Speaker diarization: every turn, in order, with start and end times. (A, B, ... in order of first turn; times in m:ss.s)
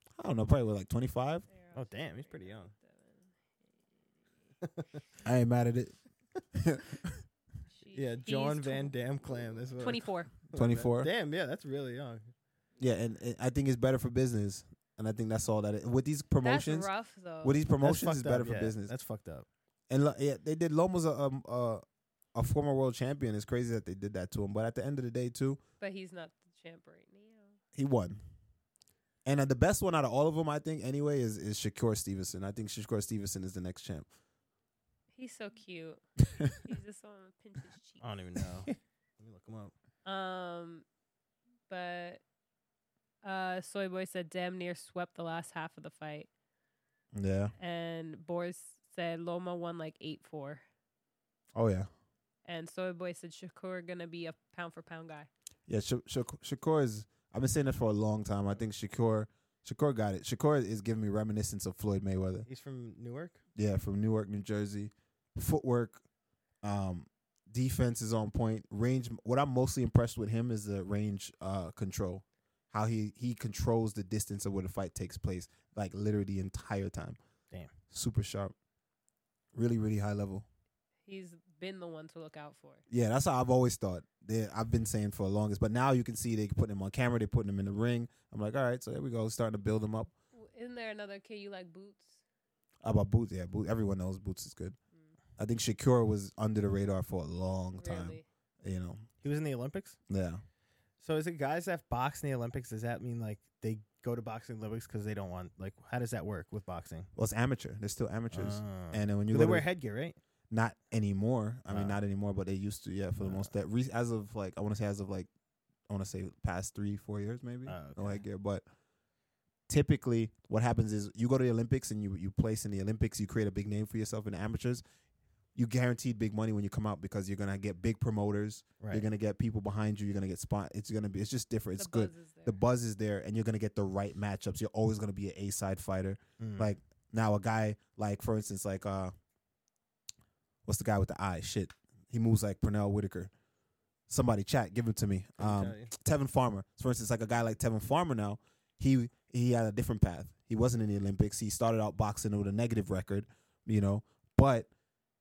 0:00.2-0:01.5 A
0:01.5-0:03.3 B
0:01.8-0:02.7 C
0:04.6-0:05.0 C
0:05.2-0:06.0 A
0:06.5-0:07.2 A
0:07.8-0:08.9 B
0:07.9-0:12.3 C
0:09.8-0:10.3 B
0:10.5-0:11.1 A
0:12.8-0:16.9 A
0:16.4-0:17.6 B
0:17.4-0:18.9 A
0:17.8-0:19.5 C
0:19.9-0:21.8 A
0:22.3-0:25.6 A
0:25.8-0:27.6 B
0:27.7-0:28.2 A
0:29.2-0:34.1 A
0:35.1-0:36.0 B
0:36.6-0:38.0 B
0:38.0-0:39.7 C
0:40.0-0:40.8 B
0:41.7-0:42.2 B
0:43.2-0:46.3 B
0:47.1-0:47.5 A
0:47.6-0:50.6 B
0:51.6-0:51.9 A
0:52.4-0:55.3 B
0:55.7-1:02.5 A
1:02.5-1:03.4 C
1:03.6-1:06.0 A
1:06.6-1:17.2 A
1:17.9-1:18.5 A
1:19.5-1:20.5 A
1:21.1-1:22.8 B
1:22.9-1:30.1 A
1:30.3-1:32.2 B
1:32.8-1:34.8 A
1:35.4-1:39.1 A
1:37.8-1:38.2 B
1:39.2-1:40.0 C
1:40.1-1:40.4 A
1:41.0-1:47.1 C
1:47.2-1:49.7 A
1:48.3-1:50.2 C
1:50.5-1:55.3 A
1:51.7-1:52.0 C
1:53.2-1:53.5 C
1:55.9-1:58.6 A
1:57.7-1:58.2 C
1:59.7-2:04.8 A
2:05.6-2:19.1 A
2:08.8-2:09.0 C
2:11.8-2:12.6 B
2:16.4-2:16.7 C
2:20.7-2:23.3 A
2:24.1-2:34.7 A
2:25.4-2:25.9 C